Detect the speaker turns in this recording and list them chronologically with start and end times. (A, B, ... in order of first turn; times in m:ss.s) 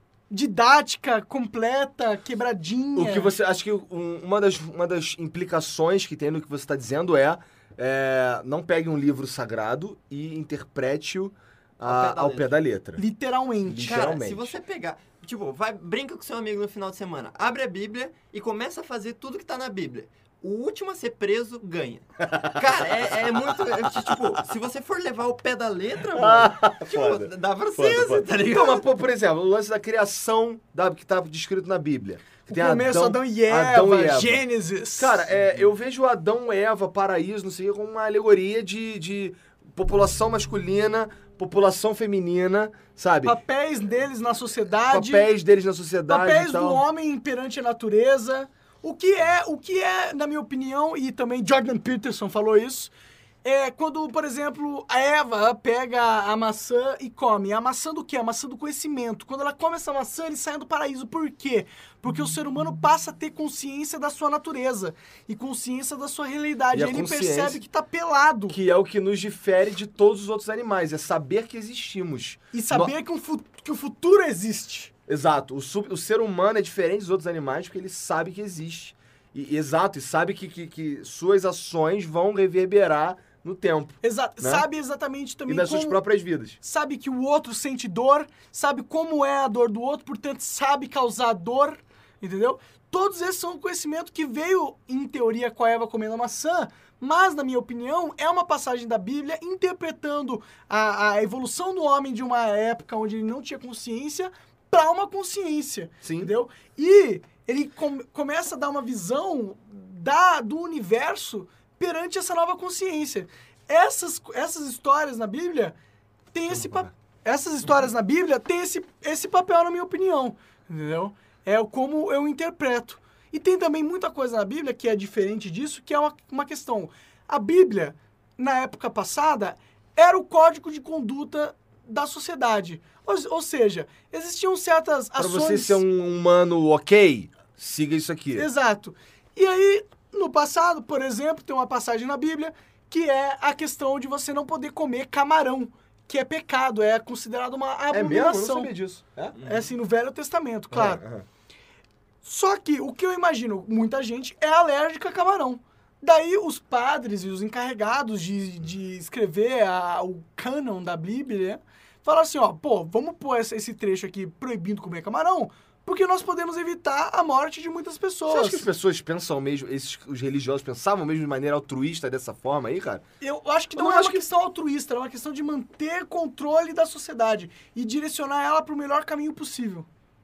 0:00.3-0:03.3 A
0:02.9-0:13.0 B
0:11.8-0:12.6 C
0:13.0-0:14.0 A
0:13.6-0:14.6 B
0:13.8-0:28.9 C
0:22.3-0:22.7 B
0:26.1-0:34.4 B
0:32.5-0:35.2 A
0:35.0-0:43.4 B
0:35.4-0:35.6 C
0:43.2-0:45.3 A
0:44.9-0:46.8 B
0:46.1-0:52.9 A
0:53.4-1:08.6 A
1:06.7-1:07.6 B
1:08.5-1:12.9 B
1:12.5-1:14.9 A
1:15.1-1:24.7 B
1:24.0-1:26.0 A
1:25.5-1:26.6 B
1:26.6-1:55.7 A
1:46.0-1:46.3 B
1:56.3-2:15.8 A
1:56.5-1:56.9 B
2:15.2-2:18.5 B
2:18.3-2:28.7 A
2:27.9-2:29.4 B
2:29.3-2:29.7 C
2:29.4-2:31.0 A
2:30.7-2:31.2 B
2:32.2-2:48.6 A
2:48.2-2:53.0 B
2:53.2-2:59.9 A
2:53.7-2:54.2 B